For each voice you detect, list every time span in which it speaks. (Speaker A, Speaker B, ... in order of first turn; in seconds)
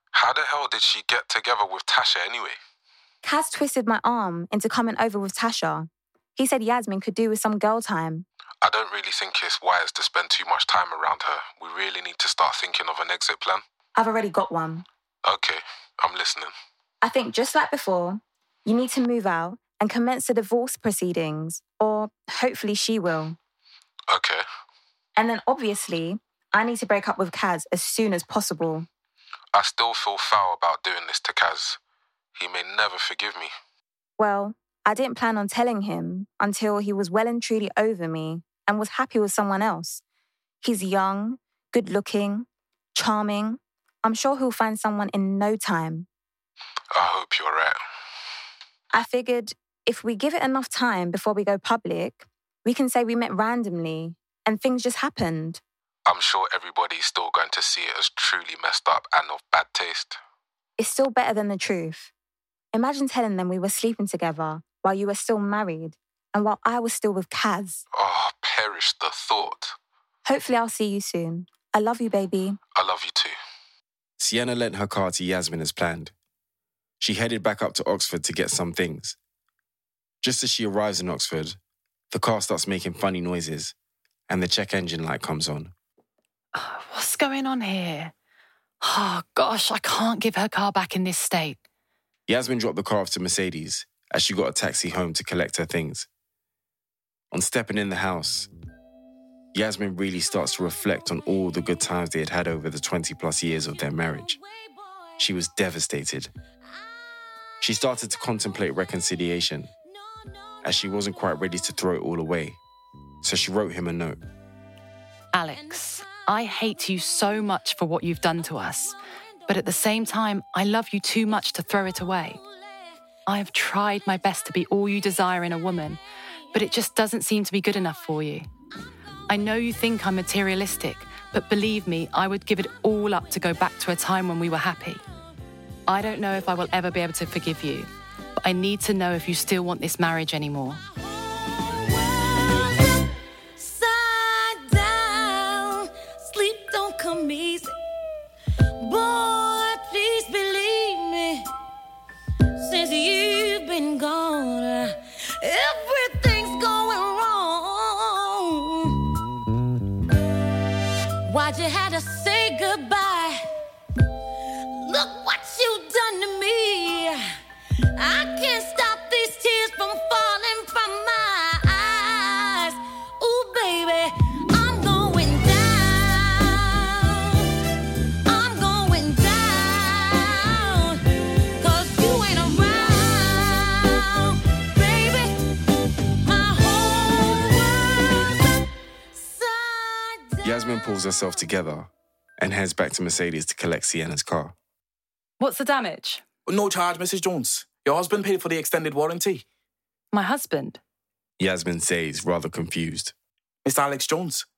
Speaker A: 0.1-2.6, 8.6-13.6, 15.2-16.5, 24.1-24.4, 29.5-31.8, 32.4-33.5, 46.9-47.8, 56.0-60.2, 67.9-69.7, 72.7-73.3
Speaker B: 3.2-8.2, 13.9-14.8, 17.0-23.4, 25.1-28.9, 34.2-40.0, 40.6-46.1, 48.9-55.6, 60.8-62.1, 62.7-67.8, 70.2-72.6
Speaker C: 74.2-76.1, 77.0-79.2, 80.2-81.6, 82.1-83.7, 84.3-85.7, 92.3-96.1, 97.3-98.5, 99.5-104.4, 105.2-106.3, 107.6-109.7, 110.6-112.6, 113.2-114.2, 190.4-194.5, 201.4-203.1
Speaker D: 86.5-88.1, 88.8-91.6, 115.3-118.9, 119.5-122.4, 123.3-126.0, 126.5-128.5, 129.3-135.0, 135.9-140.8, 195.4-196.2, 200.1-200.8
Speaker E: 141.2-143.0, 143.6-147.7, 148.8-151.4, 152.6-159.1, 161.2-163.4, 164.7-167.2, 167.9-177.5, 178.2-185.5, 186.2-188.4, 189.1-190.6
Speaker F: 196.4-199.4, 203.6-204.4